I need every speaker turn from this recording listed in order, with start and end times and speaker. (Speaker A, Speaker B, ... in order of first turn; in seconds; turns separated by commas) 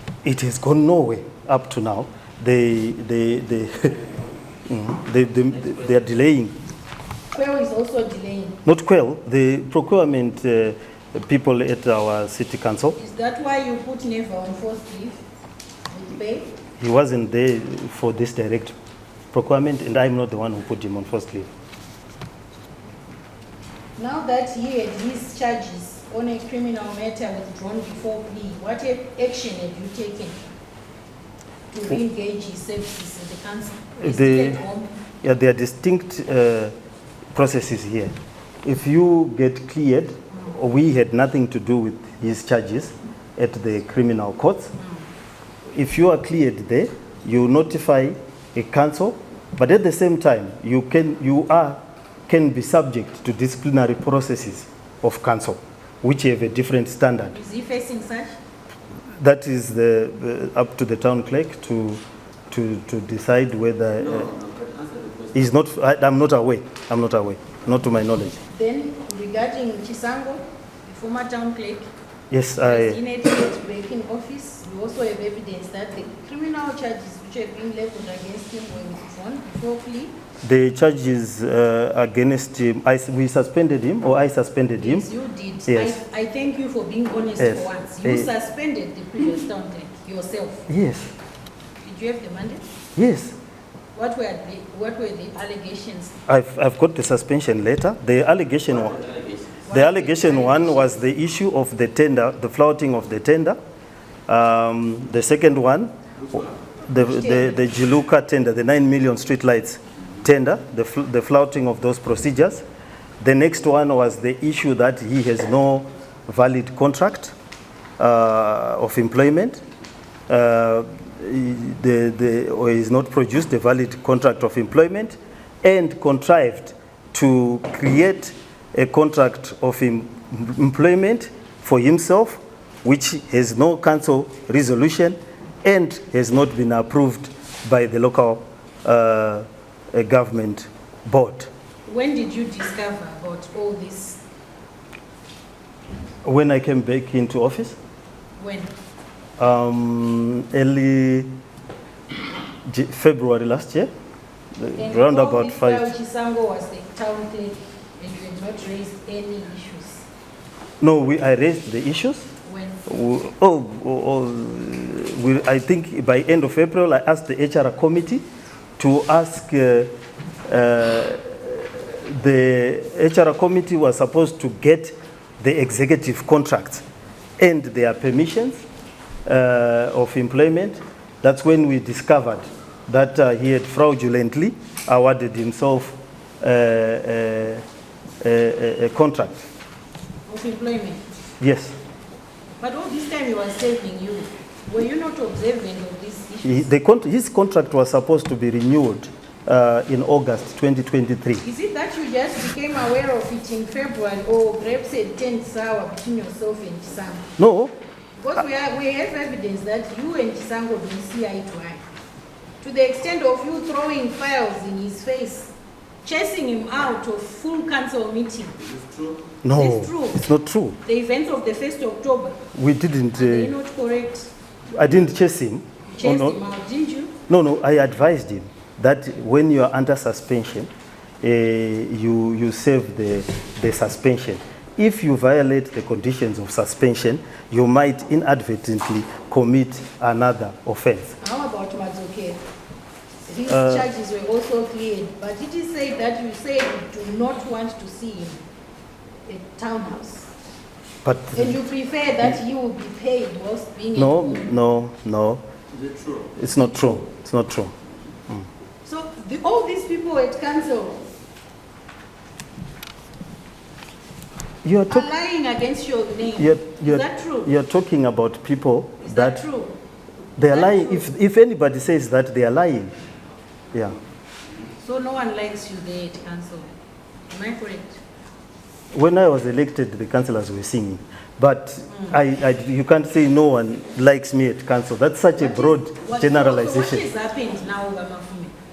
Speaker A: 0.2-4.0, Speaker A: 4.7-6.5, Speaker B: 7.3-8.6, Speaker A: 8.7-13.0, Speaker B: 13.0-15.2, Speaker B: 15.9-16.5, Speaker A: 16.8-18.8, Speaker A: 19.3-21.5, Speaker B: 24.0-30.4, Speaker B: 31.7-35.0, Speaker A: 34.0-34.6, Speaker A: 35.2-36.7, Speaker A: 37.3-38.1, Speaker A: 38.6-44.7, Speaker A: 45.8-57.4, Speaker B: 57.3-58.4, Speaker A: 59.2-64.4, Speaker A: 65.3-68.4, Speaker B: 68.5-71.9, Speaker A: 72.3-73.0, Speaker B: 72.6-80.2, Speaker A: 80.4-85.1, Speaker B: 84.8-90.7, Speaker A: 85.7-86.0, Speaker A: 87.4-88.3, Speaker A: 90.7-91.1, Speaker B: 91.8-92.7, Speaker A: 93.0-93.4, Speaker B: 94.0-96.2, Speaker A: 96.3-103.6, Speaker B: 99.7-101.0, Speaker A: 104.3-112.6, Speaker B: 107.0-107.6, Speaker A: 113.2-117.3, Speaker A: 118.0-119.6, Speaker A: 120.3-141.5, Speaker B: 141.9-144.2, Speaker A: 146.2-147.8, Speaker B: 148.4-148.7, Speaker A: 149.4-151.3, Speaker A: 152.7-153.9, Speaker A: 154.6-155.9, Speaker B: 154.8-160.1, Speaker A: 160.8-162.3, Speaker B: 162.5-162.9, Speaker A: 162.9-168.2, Speaker A: 168.8-169.9, Speaker A: 170.5-176.8, Speaker A: 177.4-178.6, Speaker A: 179.3-187.6, Speaker A: 188.2-189.3, Speaker B: 190.3-191.1, Speaker A: 191.4-191.8, Speaker B: 192.6-196.7, Speaker A: 196.4-201.4, Speaker B: 201.4-207.3, Speaker A: 207.4-207.8, Speaker B: 208.2-211.8, Speaker B: 212.6-215.5, Speaker B: 216.0-218.6, Speaker A: 219.4-220.8, Speaker B: 219.5-220.2, Speaker B: 220.8-222.4, Speaker A: 222.6-223.6, Speaker B: 223.2-224.3, Speaker A: 224.7-226.4, Speaker B: 225.9-227.2, Speaker A: 227.3-230.7, Speaker A: 231.2-241.2, Speaker B: 241.2-242.4, Speaker B: 243.3-248.4, Speaker A: 243.5-243.9, Speaker B: 249.3-250.3, Speaker A: 251.0-251.6, Speaker B: 251.3-254.5, Speaker A: 254.0-255.4, Speaker A: 256.3-257.7, Speaker B: 258.8-261.0, Speaker A: 264.6-265.1, Speaker B: 264.9-267.5, Speaker A: 266.4-269.4, Speaker B: 269.0-269.8, Speaker A: 270.4-272.9, Speaker B: 270.4-271.1, Speaker B: 274.8-276.7, Speaker B: 277.3-278.0, Speaker A: 278.9-287.1, Speaker B: 285.4-288.6